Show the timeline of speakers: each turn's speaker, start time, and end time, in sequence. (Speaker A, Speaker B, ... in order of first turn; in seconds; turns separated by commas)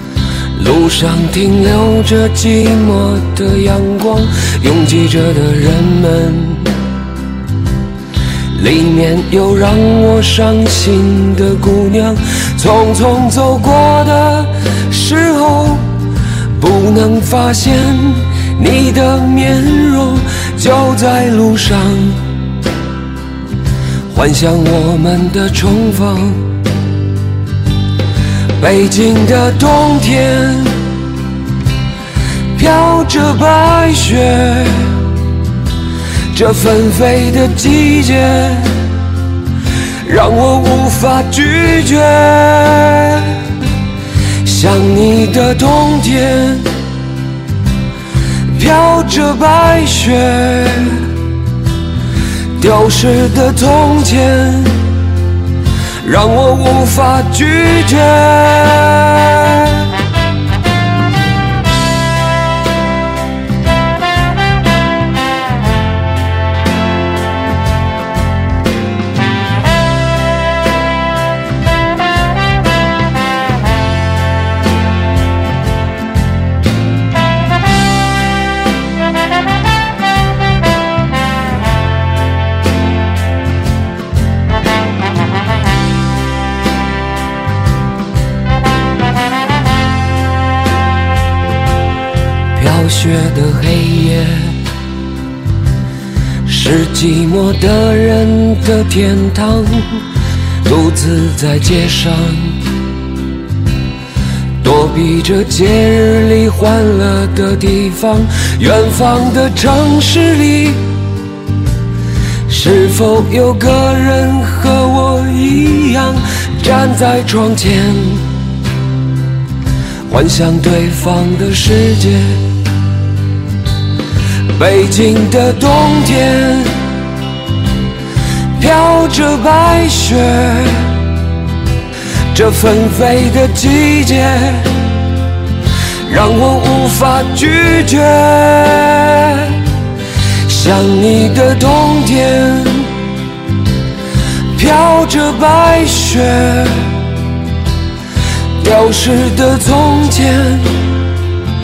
Speaker A: 0.6-6.8, Speaker A: 8.5-16.1, Speaker A: 16.6-22.2, Speaker A: 24.1-26.5, Speaker A: 28.6-30.9, Speaker A: 32.5-35.2, Speaker A: 36.3-38.9, Speaker A: 40.0-43.6, Speaker A: 44.4-46.7, Speaker A: 48.5-51.2, Speaker A: 52.6-54.9, Speaker A: 56.0-59.9, Speaker A: 92.5-94.6, Speaker A: 96.4-100.1, Speaker A: 100.6-102.6, Speaker A: 104.6-110.9, Speaker A: 112.5-118.3, Speaker A: 120.1-122.4, Speaker A: 124.5-126.8, Speaker A: 128.6-131.1, Speaker A: 132.3-134.9, Speaker A: 136.1-139.7, Speaker A: 140.4-143.1, Speaker A: 144.5-147.1, Speaker A: 148.6-150.8